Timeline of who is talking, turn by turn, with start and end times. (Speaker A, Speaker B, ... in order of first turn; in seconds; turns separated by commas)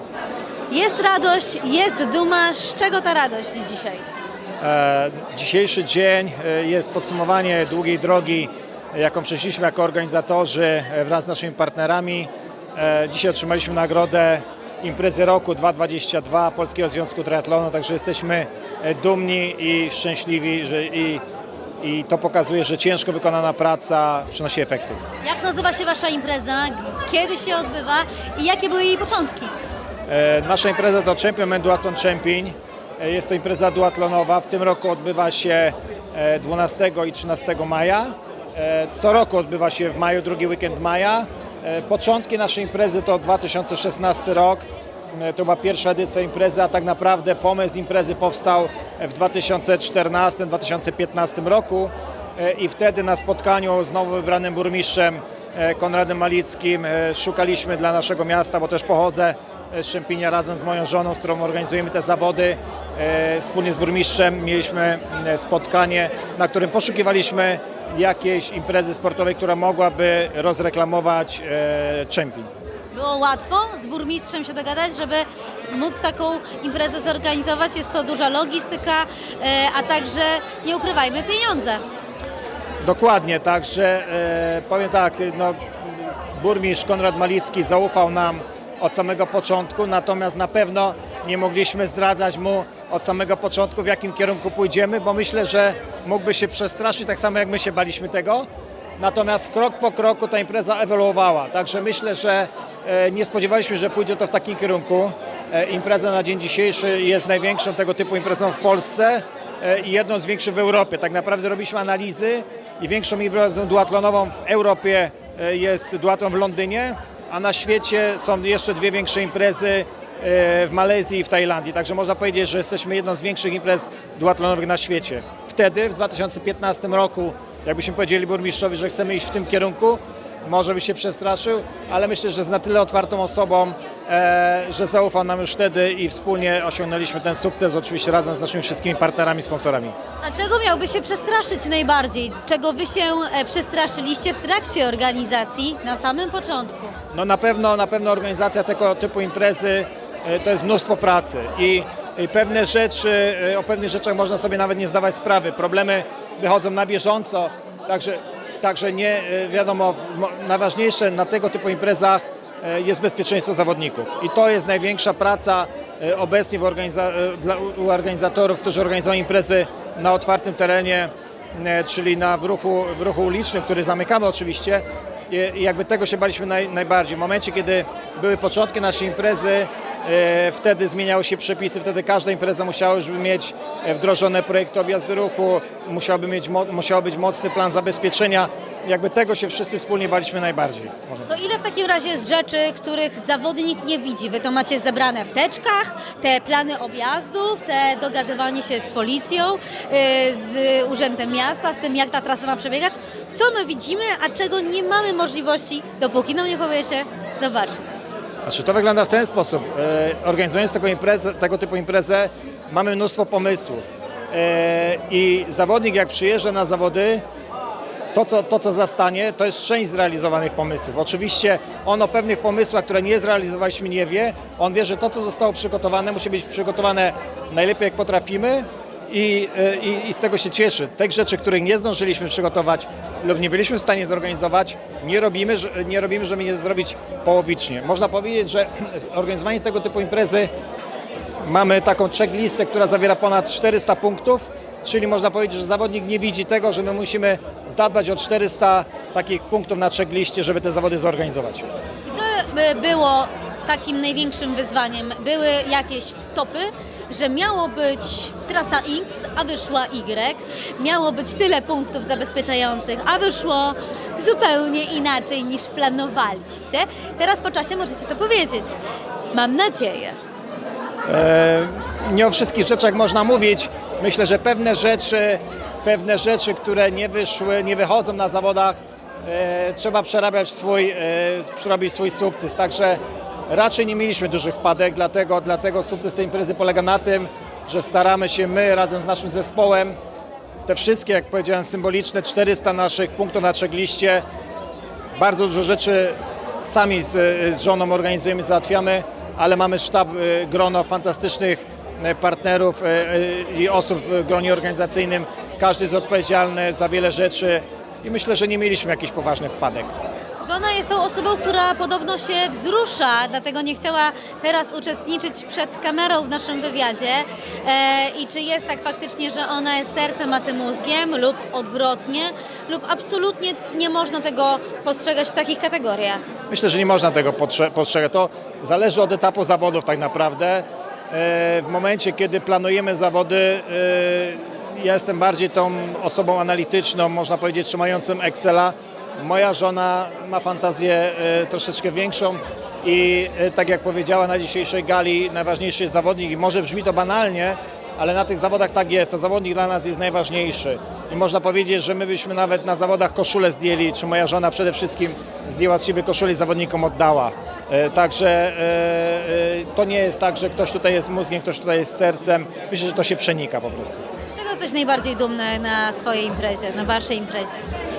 Speaker A: 0.7-4.0, Speaker B: 4.6-21.2, Speaker B: 21.8-25.0, Speaker A: 25.2-29.5, Speaker B: 30.1-72.5, Speaker A: 72.9-81.8, Speaker B: 82.8-98.5, Speaker B: 99.0-139.9, Speaker A: 140.2-146.9, Speaker B: 147.1-191.3, Speaker A: 191.3-207.8, Speaker B: 208.4-217.2, Speaker B: 218.1-240.5, Speaker B: 241.4-251.7, Speaker A: 252.1-268.8, Speaker A: 269.3-270.2, Speaker B: 271.1-290.0, Speaker B: 290.6-294.2, Speaker B: 295.2-309.9, Speaker A: 310.4-326.2, Speaker B: 326.5-364.0, Speaker A: 364.3-367.6